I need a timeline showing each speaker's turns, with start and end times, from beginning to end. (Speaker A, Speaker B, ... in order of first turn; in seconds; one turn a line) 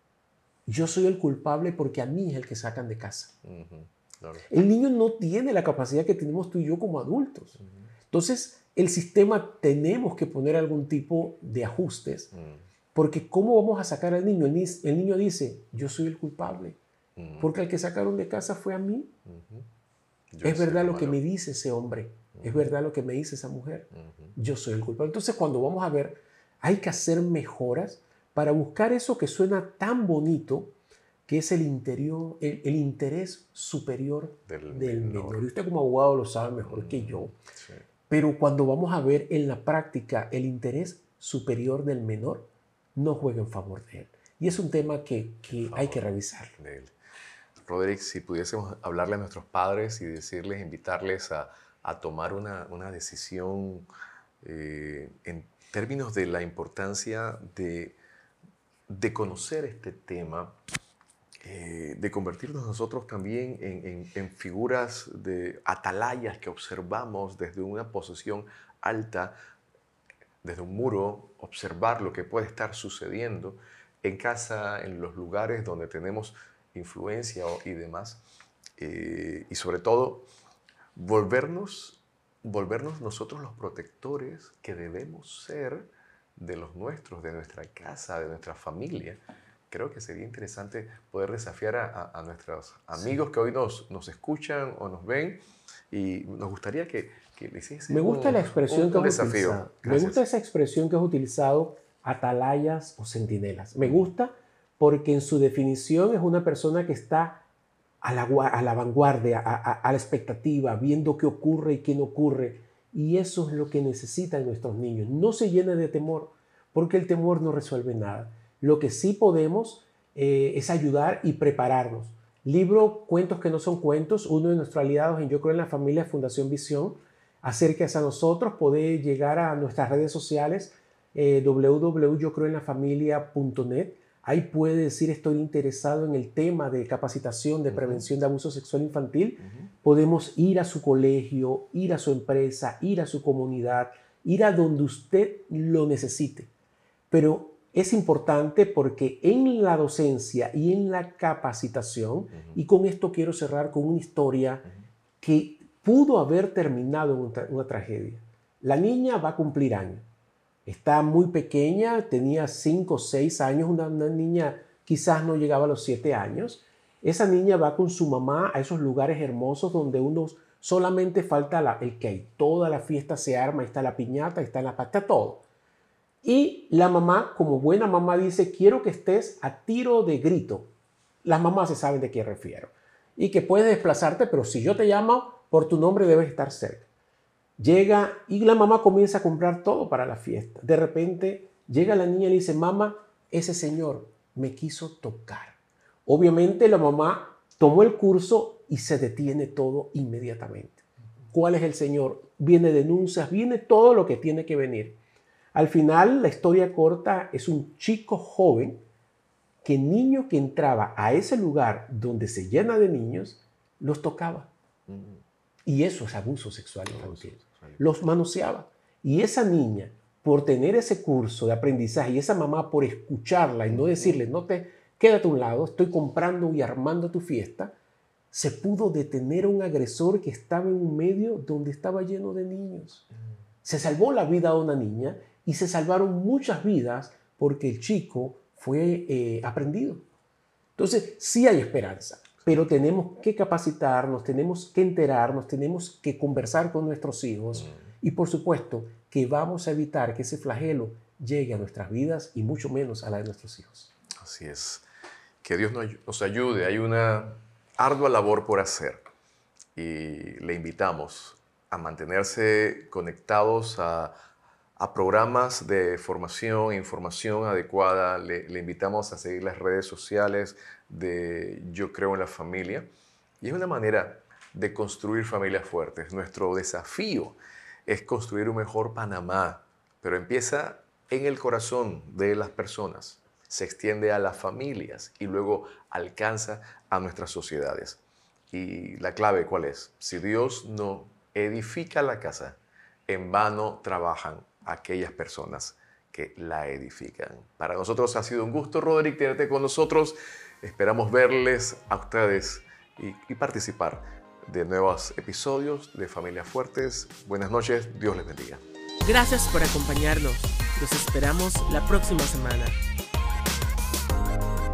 Speaker A: 0.7-3.3
Speaker B: 3.4-4.4
Speaker A: 4.5-7.6
Speaker B: 7.6-7.8
Speaker A: 8.1-12.3
Speaker B: 12.3-12.6
Speaker A: 12.9-16.8
Speaker B: 17.2-17.5
Speaker A: 17.4-19.1
Speaker B: 19.2-19.6
Speaker B: 20.3-21.2
Speaker A: 20.4-30.7
Speaker B: 22.3-22.6
Speaker B: 23.9-24.3
Speaker A: 31.3-37.3
Speaker B: 34.5-35.4
Speaker B: 36.6-37.8
Speaker A: 38.1-46.5
Speaker B: 45.5-46.9
Speaker B: 47.6-53.9
Speaker B: 54.4-58.0
Speaker B: 58.9-60.5
Speaker B: 61.4-69.4
Speaker B: 70.4-78.2
Speaker B: 78.8-80.3
Speaker B: 81.0-100.2
Speaker A: 97.9-107.4
Speaker B: 103.8-104.1
Speaker A: 108.0-146.5
Speaker B: 137.7-138.0
Speaker B: 139.4-139.7
Speaker A: 147.1-154.7
Speaker A: 155.2-160.0
Speaker A: 160.7-175.4
Speaker A: 176.2-180.7
Speaker A: 181.2-186.9
Speaker A: 187.6-205.0
Speaker A: 205.5-208.8
Speaker A: 209.6-214.5
Speaker B: 214.9-215.2
Speaker A: 215.7-227.7
Speaker B: 216.9-217.8
Speaker B: 223.7-224.2
Speaker A: 228.3-233.1
Speaker A: 233.6-240.0
Speaker A: 240.8-253.9
Speaker B: 247.6-247.9
Speaker B: 254.2-254.8
Speaker B: 255.4-259.0
Speaker B: 259.8-264.1
Speaker B: 264.8-272.9
Speaker B: 273.4-288.0
Speaker B: 288.5-308.6
Speaker C: 309.0-312.8